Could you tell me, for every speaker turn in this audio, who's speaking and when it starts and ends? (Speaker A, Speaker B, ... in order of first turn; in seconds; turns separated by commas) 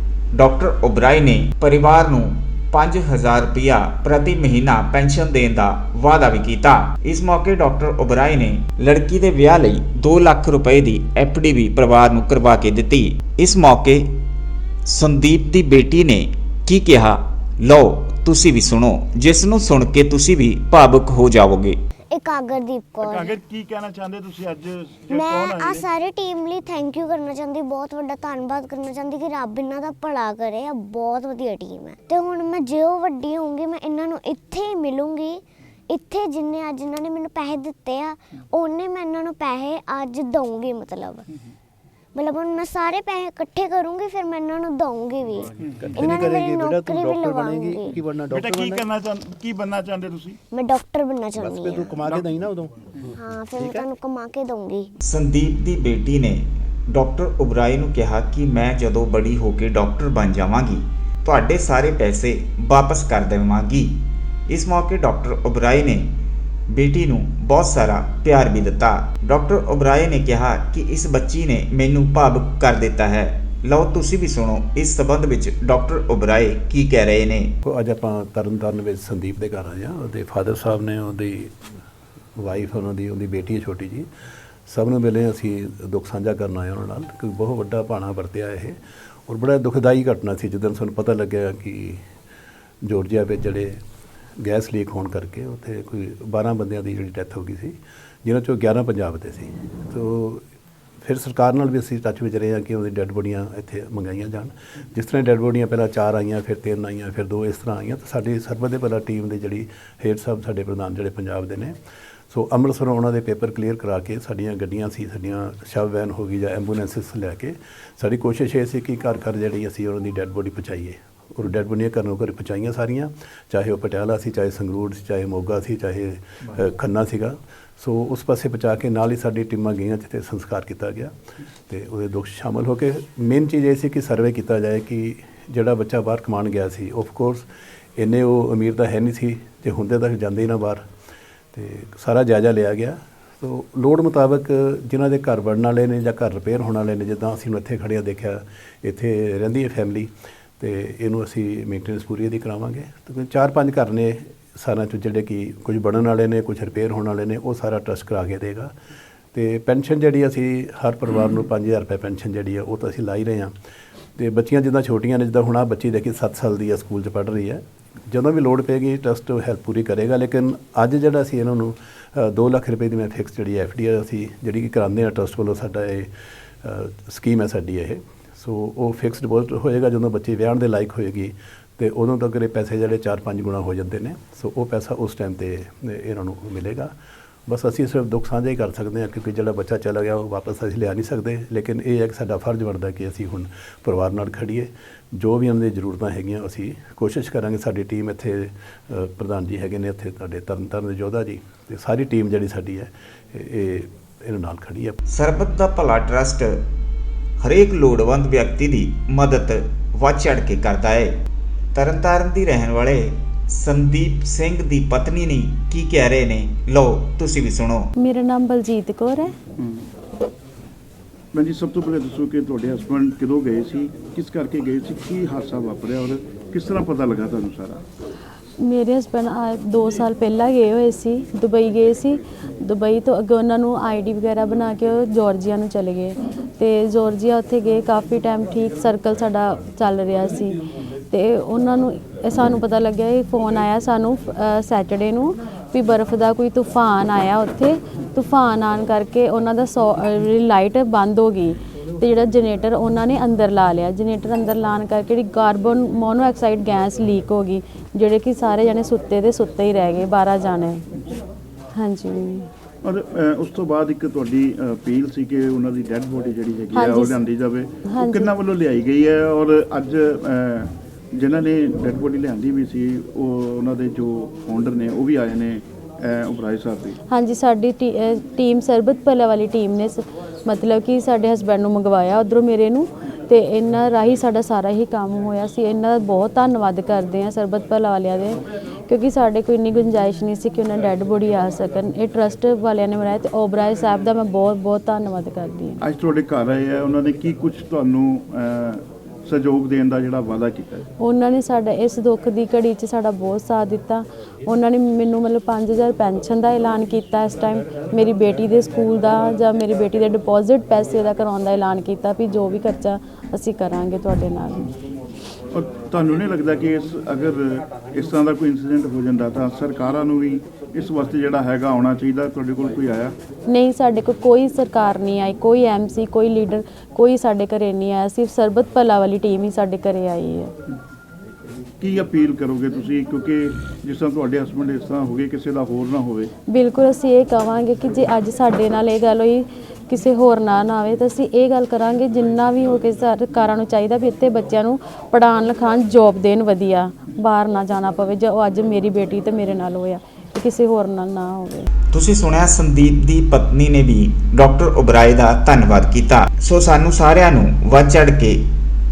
Speaker A: 0.3-14.1, Speaker A: 14.8-21.8, Speaker B: 22.1-23.4, Speaker C: 23.0-25.9, Speaker B: 25.1-41.3, Speaker B: 42.1-48.0, Speaker C: 45.6-46.2, Speaker D: 45.8-48.8, Speaker C: 48.3-50.4, Speaker B: 50.5-52.0, Speaker D: 51.4-52.7, Speaker C: 52.0-52.5, Speaker B: 53.1-54.9, Speaker D: 53.5-53.9, Speaker A: 55.0-64.0, Speaker A: 64.5-66.1, Speaker A: 66.7-77.5, Speaker D: 77.6-81.7, Speaker D: 82.4-84.1, Speaker D: 84.7-92.0, Speaker D: 92.8-93.8, Speaker D: 94.4-100.5, Speaker D: 101.0-111.7, Speaker D: 112.3-131.1, Speaker D: 131.7-137.5, Speaker D: 138.0-140.8, Speaker D: 141.5-158.7, Speaker D: 159.3-163.5, Speaker D: 164.2-176.1, Speaker D: 176.6-186.9, Speaker D: 187.5-205.0, Speaker A: 205.1-206.6, Speaker A: 207.4-211.1, Speaker A: 211.8-217.9, Speaker E: 218.0-219.3, Speaker C: 219.6-219.9, Speaker C: 221.3-227.8, Speaker E: 228.6-260.8, Speaker E: 261.8-262.5, Speaker C: 262.8-277.0, Speaker E: 266.7-267.2, Speaker E: 267.9-268.3, Speaker E: 277.1-295.8, Speaker C: 295.8-300.9, Speaker E: 301.0-314.7, Speaker C: 315.5-323.1, Speaker E: 323.5-330.5, Speaker C: 331.8-336.3, Speaker E: 336.5-351.7, Speaker A: 351.9-358.4